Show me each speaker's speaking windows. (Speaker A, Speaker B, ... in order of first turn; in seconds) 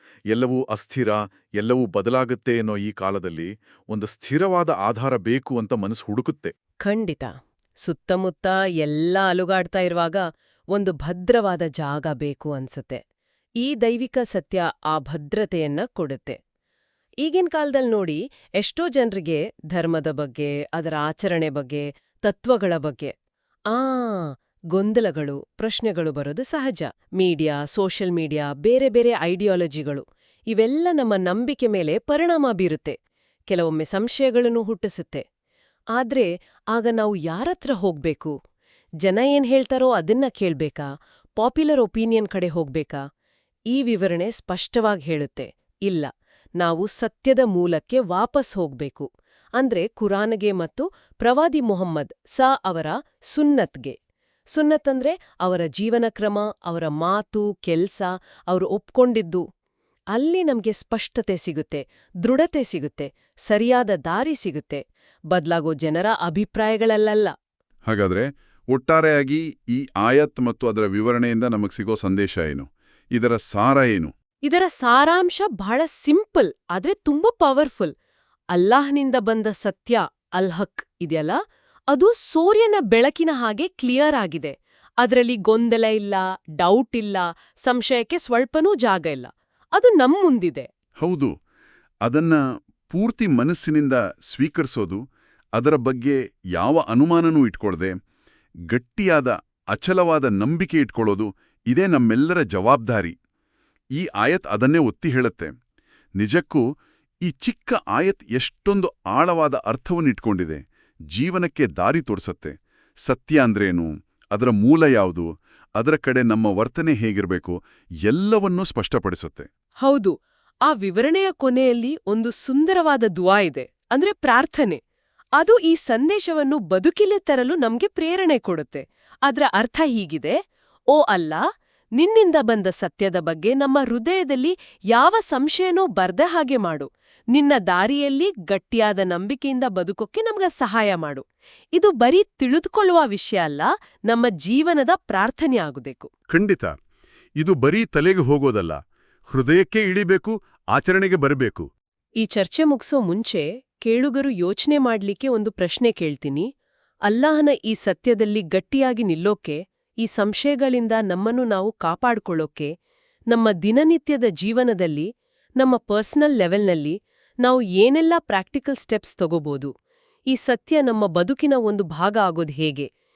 Speaker A: 0.3-6.5, 67.9-74.1, 91.0-91.3, 92.0-95.0, 95.5-97.9, 98.7-103.2, 103.9-105.5, 106.2-106.6, 107.2-110.6, 111.1-119.5, 146.3-146.7, 147.4-148.8, 149.3-151.7
Speaker B: 6.8-7.3, 7.8-13.0, 13.6-16.4, 17.2-23.1, 23.7-33.0, 33.5-35.2, 36.0-38.3, 39.0-43.0, 43.7-49.1, 49.6-54.0, 54.5-59.4, 60.1-67.3, 74.5-77.9, 78.5-81.4, 81.9-90.7, 119.8-120.1, 120.7-124.8, 125.4-130.4, 130.9-131.4, 132.0-141.2, 141.8-146.1, 152.2-156.5, 157.1-162.7, 163.3-165.1, 165.6-169.7, 170.3-172.9